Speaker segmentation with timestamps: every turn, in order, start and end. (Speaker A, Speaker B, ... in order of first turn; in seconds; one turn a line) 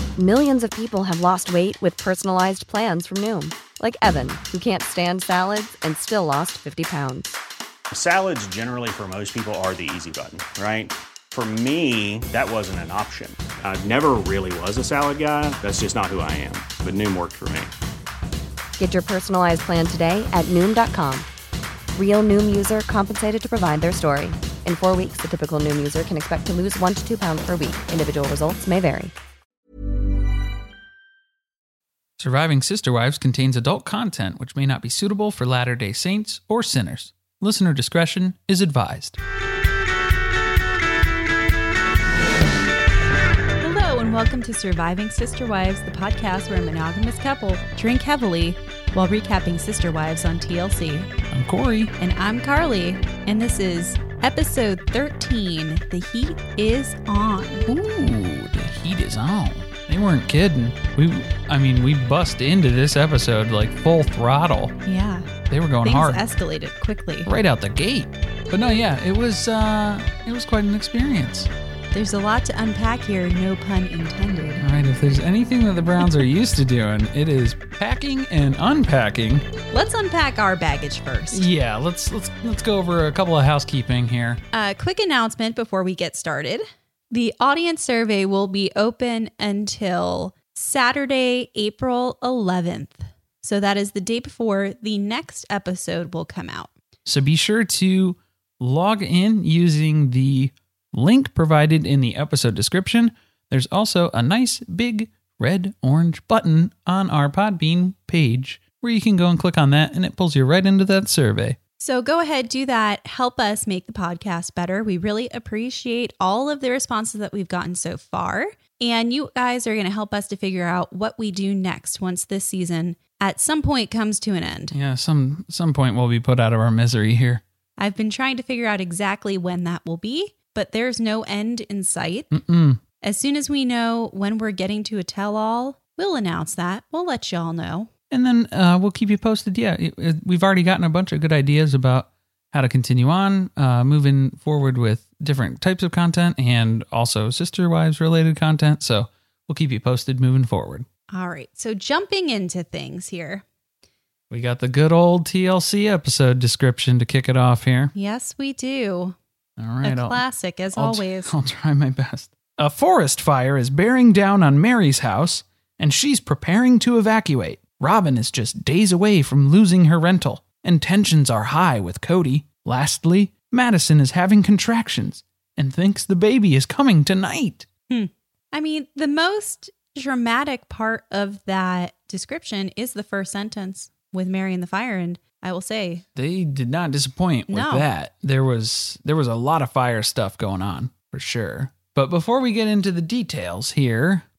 Speaker A: 0.2-7.4
Speaker B: 7.9-17.7
Speaker A: 18.8-21.3
Speaker A: 21.9-29.1
Speaker C: 32.2-39.2
Speaker D: 43.6-51.1
Speaker C: 51.3-51.9
Speaker D: 52.0-57.6
Speaker C: 57.6-64.8
Speaker D: 64.8-65.3
Speaker C: 65.5-66.2
Speaker D: 65.8-67.3
Speaker C: 67.2-71.5
Speaker D: 71.9-74.6
Speaker C: 74.6-79.5
Speaker D: 79.7-81.5
Speaker C: 81.3-84.4
Speaker D: 84.5-96.7
Speaker C: 97.0-111.6
Speaker D: 111.8-124.8
Speaker C: 124.7-127.4
Speaker D: 127.8-132.3
Speaker C: 132.3-132.8
Speaker D: 133.0-137.9
Speaker C: 138.1-150.9
Speaker D: 151.1-153.4
Speaker C: 154.3-157.9
Speaker D: 157.9-159.2
Speaker C: 159.6-160.2
Speaker D: 159.8-161.3
Speaker C: 160.7-177.7
Speaker D: 177.9-186.0
Speaker C: 186.2-194.2
Speaker D: 187.5-187.9